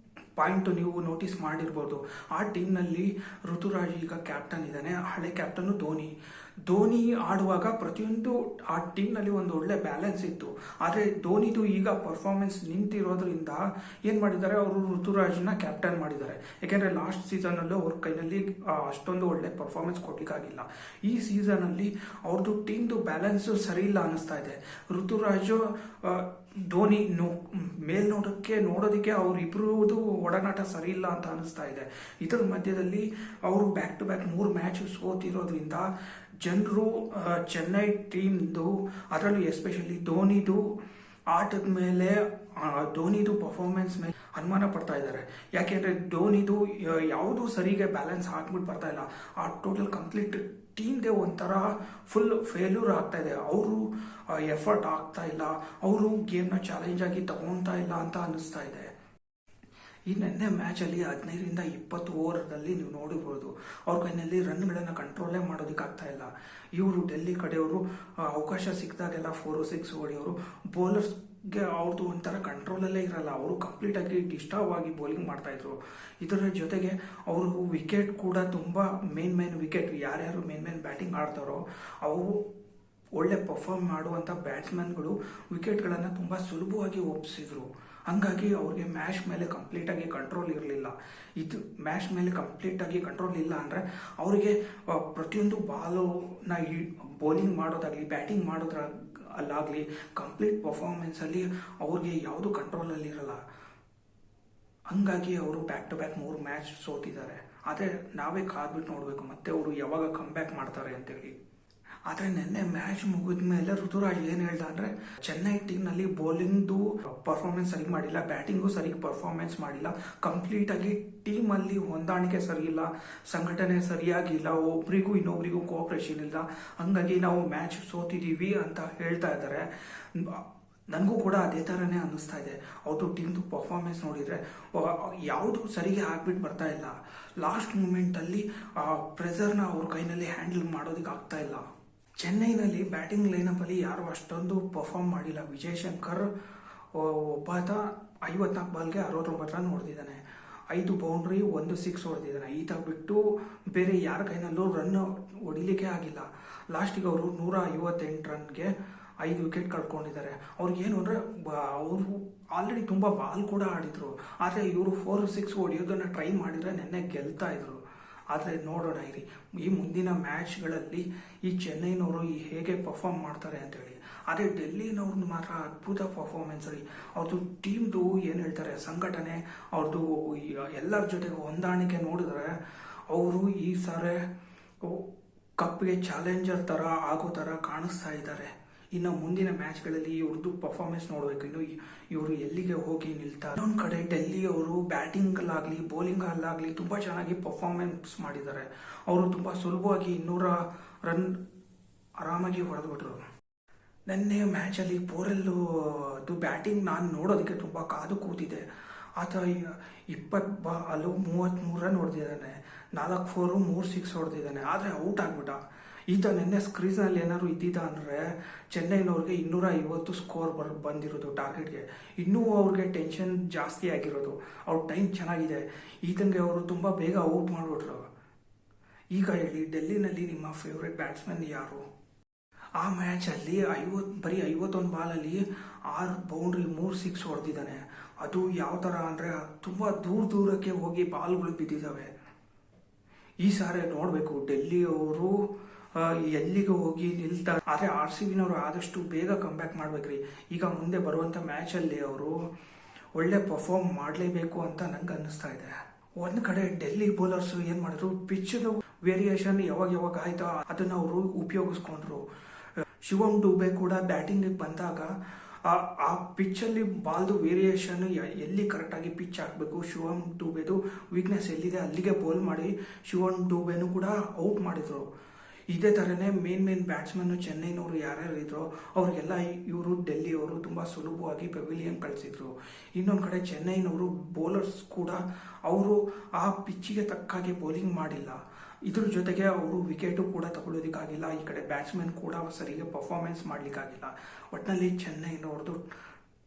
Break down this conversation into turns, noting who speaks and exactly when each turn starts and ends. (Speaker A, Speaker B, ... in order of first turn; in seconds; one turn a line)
Speaker A: 0.4-6.1
Speaker A: 6.7-35.9
Speaker A: 36.4-40.7
Speaker A: 41.3-58.9
Speaker A: 60.1-82.4
Speaker A: 83.2-103.4
Speaker A: 104.9-111.4
Speaker A: 112.1-141.7
Speaker A: 142.2-146.3
Speaker A: 146.9-167.8
Speaker A: 168.3-182.6
Speaker A: 183.1-184.2
Speaker A: 184.8-201.4
Speaker A: 202.2-203.2
Speaker A: 204.1-228.0
Speaker A: 229.1-231.8
Speaker A: 232.8-242.1
Speaker A: 243.4-245.4
Speaker A: 245.9-252.5
Speaker A: 253.2-262.2
Speaker A: 263.0-275.1
Speaker A: 275.7-295.8